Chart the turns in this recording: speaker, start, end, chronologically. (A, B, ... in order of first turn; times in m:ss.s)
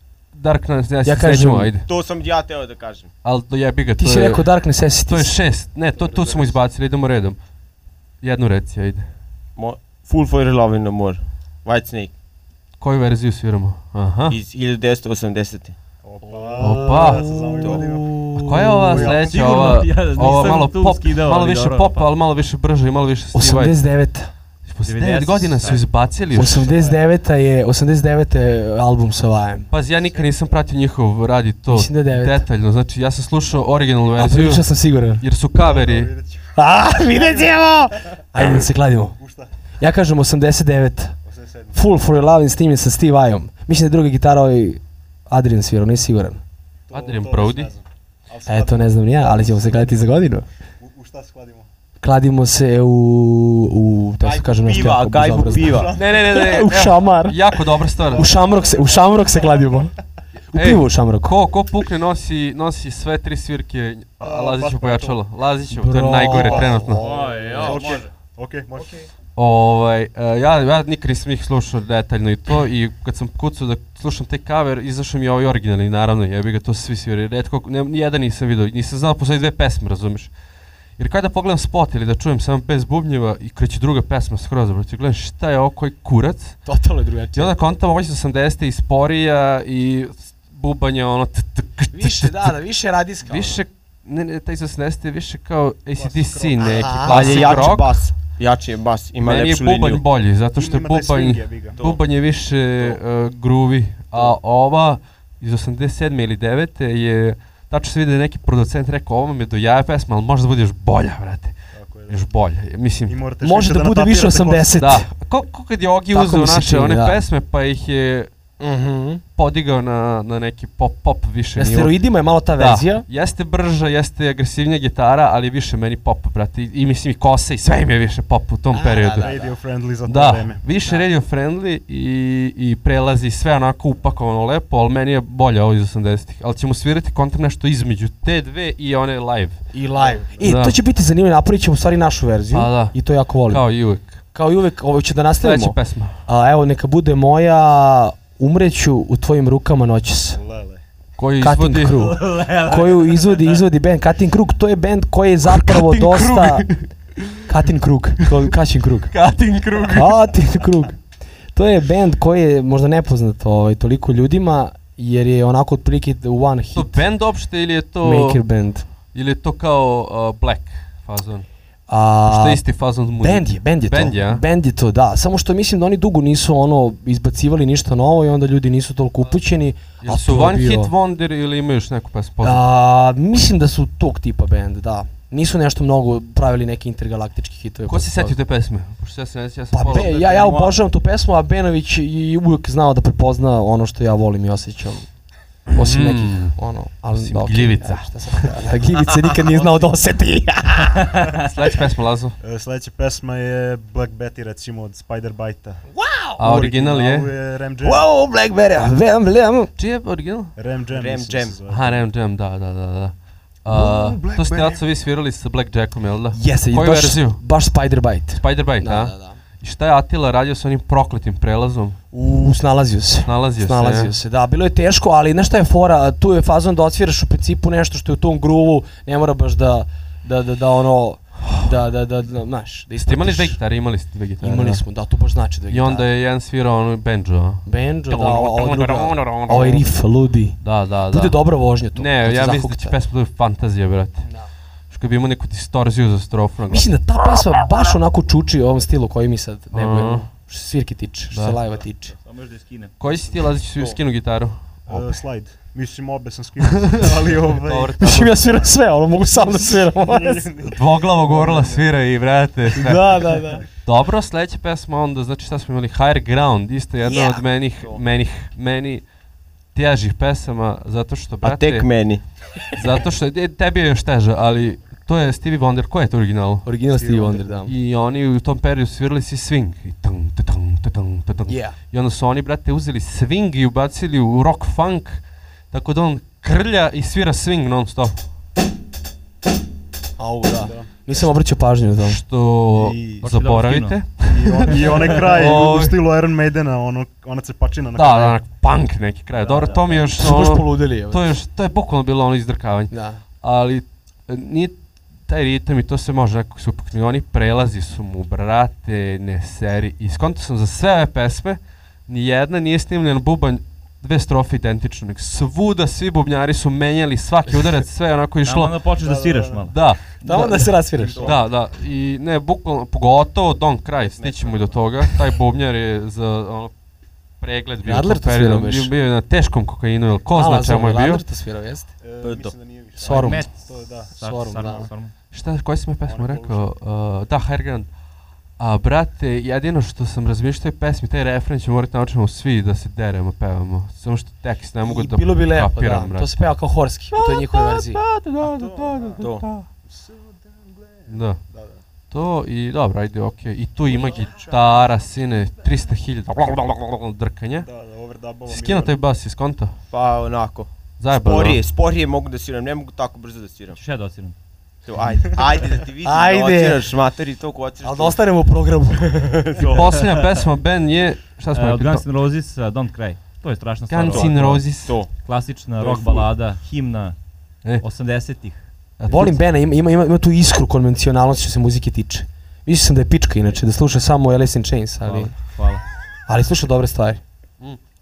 0:00.3-0:01.9 A
0:01.0-0:01.7 B
0:01.8-0:03.1 C
0:03.2-0:04.5 A
0:04.0-0:05.4 B
0:05.1-0:07.4 A
0:05.9-0:06.6 D
0:08.2-0:09.1 A
0:09.6-0:12.1 C
0:12.8-0:14.4 A
0:14.3-0:15.8 C
0:16.0-0:19.7 D
0:16.2-0:19.2 B
0:16.6-0:17.3 A
0:18.4-0:23.8 A
0:19.3-0:22.1 E
0:23.3-0:24.3 B
0:24.7-0:26.7 A
0:24.8-0:25.8 E
0:26.3-0:29.7 B
0:26.4-0:27.0 D
0:29.7-0:34.7 A
0:30.1-0:30.6 D
0:31.7-0:32.4 B
0:34.2-0:35.2 B
0:35.2-0:36.1 A
0:35.6-0:36.6 D
0:36.6-0:39.2 B
0:37.1-0:37.6 D
0:39.2-0:39.5 D
0:39.8-0:41.2 B
0:41.3-0:41.8 D
0:41.7-0:46.4 B
0:46.9-0:50.1 D
0:46.9-0:47.7 A
0:48.5-0:50.5 B
0:50.8-0:51.7 D
0:52.0-0:59.9 B
0:54.2-0:55.9 C
0:55.6-0:56.3 D
0:56.0-0:58.3 A
0:58.1-0:59.8 D
1:00.5-1:01.4 B
1:00.5-1:07.0 A
1:04.2-1:05.2 D
1:05.7-1:07.0 B
1:06.3-1:09.1 D
1:07.0-1:08.1 E
1:07.5-1:07.8 C
1:09.4-1:20.3 A
1:21.0-1:26.7 A
1:26.7-1:27.6 B
1:27.3-1:32.6 A
1:31.9-1:33.6 B
1:33.2-1:38.0 A
1:36.0-1:37.0 D
1:36.6-1:37.5 B
1:37.0-1:40.0 C
1:39.2-1:51.6 A
1:40.6-1:41.8 D
1:41.8-1:42.0 C
1:51.7-1:52.2 D
1:52.1-1:53.2 A
1:53.1-1:54.8 D
1:53.4-1:55.1 B
1:54.8-1:58.3 A
1:56.1-1:57.2 B
1:58.6-1:59.2 B
1:59.4-2:02.0 A
2:01.6-2:03.0 B
2:02.6-2:09.3 A
2:08.7-2:09.6 B
2:09.2-2:10.6 D
2:10.0-2:19.6 A
2:19.7-2:23.6 B
2:20.0-2:20.5 D
2:20.4-2:20.8 A
2:22.5-2:24.2 A
2:24.3-2:30.4 B
2:25.4-2:26.2 A
2:30.3-2:30.8 D
2:31.2-2:32.1 A
2:31.4-2:36.7 B
2:31.9-2:33.6 E
2:35.5-2:37.7 A
2:37.5-2:39.1 B
2:39.1-2:40.1 A
2:39.8-2:41.0 B
2:41.5-2:47.0 B
2:46.8-2:48.4 A
2:48.0-2:48.9 B
2:49.1-2:51.5 A
2:51.9-2:52.6 B
2:52.3-2:54.4 A
2:53.2-3:00.9 B
3:00.0-3:02.6 A
3:02.4-3:08.4 B
3:07.9-3:10.8 A
3:09.7-3:15.1 B
3:15.7-3:16.6 A
3:15.7-3:21.2 B
3:17.1-3:18.6 A
3:19.5-3:19.8 D
3:21.5-3:22.4 A
3:22.4-3:25.8 D
3:25.9-3:26.4 B
3:26.4-3:27.3 A
3:26.4-3:28.1 D
3:27.8-3:29.7 B
3:29.8-3:30.6 A
3:30.6-3:32.0 D
3:30.9-3:31.6 C
3:31.7-3:37.4 A
3:33.7-3:34.8 B
3:36.3-3:39.4 B
3:38.4-3:42.0 A
3:42.1-3:53.6 B
3:43.3-3:44.1 A
3:53.0-3:54.8 A
3:54.4-3:56.1 B
3:55.7-3:59.9 A
3:57.6-4:03.0 B
4:00.6-4:01.4 A
4:02.0-4:04.3 A
4:04.9-4:06.9 A
4:06.7-4:12.2 B
4:09.7-4:10.3 A
4:11.3-4:11.6 A
4:12.2-4:13.0 E
4:13.0-4:15.2 A
4:14.9-4:18.0 D
4:16.8-4:18.4 A
4:18.0-4:20.5 B
4:19.3-4:21.9 D
4:20.6-4:29.0 A
4:22.7-4:23.6 B
4:27.0-4:27.4 B
4:29.7-4:31.9 A
4:31.4-4:32.2 C
4:32.7-4:36.7 A
4:36.6-4:37.7 B
4:36.9-4:37.6 D
4:37.7-4:48.2 A
4:41.5-4:41.8 B
4:50.2-4:52.2 B
4:50.5-4:50.9 D
4:52.0-4:56.0 A
4:52.8-4:53.2 D
4:53.2-4:54.1 E
4:54.3-4:58.4 D
4:54.9-4:55.4 E
4:58.0-5:18.8 A
4:59.4-5:00.1 E
5:00.2-5:01.3 B
5:02.9-5:03.2 B
5:18.4-5:19.8 E
5:19.0-5:19.7 D
5:19.7-5:26.7 A
5:20.2-5:21.4 B
5:20.7-5:21.4 D
5:27.4-5:31.2 A
5:27.8-5:28.9 B
5:30.3-5:31.9 B
5:32.0-5:34.9 D
5:32.2-5:32.5 C
5:33.0-5:33.5 B
5:33.0-5:35.1 E
5:34.2-5:34.9 B
5:35.3-5:37.9 A
5:36.1-5:36.7 D
5:38.6-5:46.3 A
5:44.8-5:48.0 B
5:47.1-5:49.7 A
5:48.4-5:49.2 D
5:49.2-5:49.5 C
5:49.9-5:51.8 D
5:51.1-5:51.4 A
5:52.1-5:57.7 A
5:54.3-5:54.5 D
5:57.6-5:59.0 D
5:58.5-5:59.7 A
5:59.9-6:03.8 C
6:01.0-6:01.6 A
6:03.7-6:04.4 E
6:04.9-6:08.2 C
6:05.0-6:05.3 E
6:06.0-6:06.8 B
6:07.8-6:09.6 B
6:09.1-6:09.9 C
6:09.7-6:10.0 E
6:09.7-6:12.0 A
6:11.5-6:17.2 E
6:13.9-6:15.0 A
6:14.0-6:15.1 C
6:15.8-6:16.3 C
6:17.8-6:19.2 E
6:19.0-6:19.4 A
6:19.1-6:25.6 B
6:25.0-6:25.8 E
6:26.3-6:27.2 B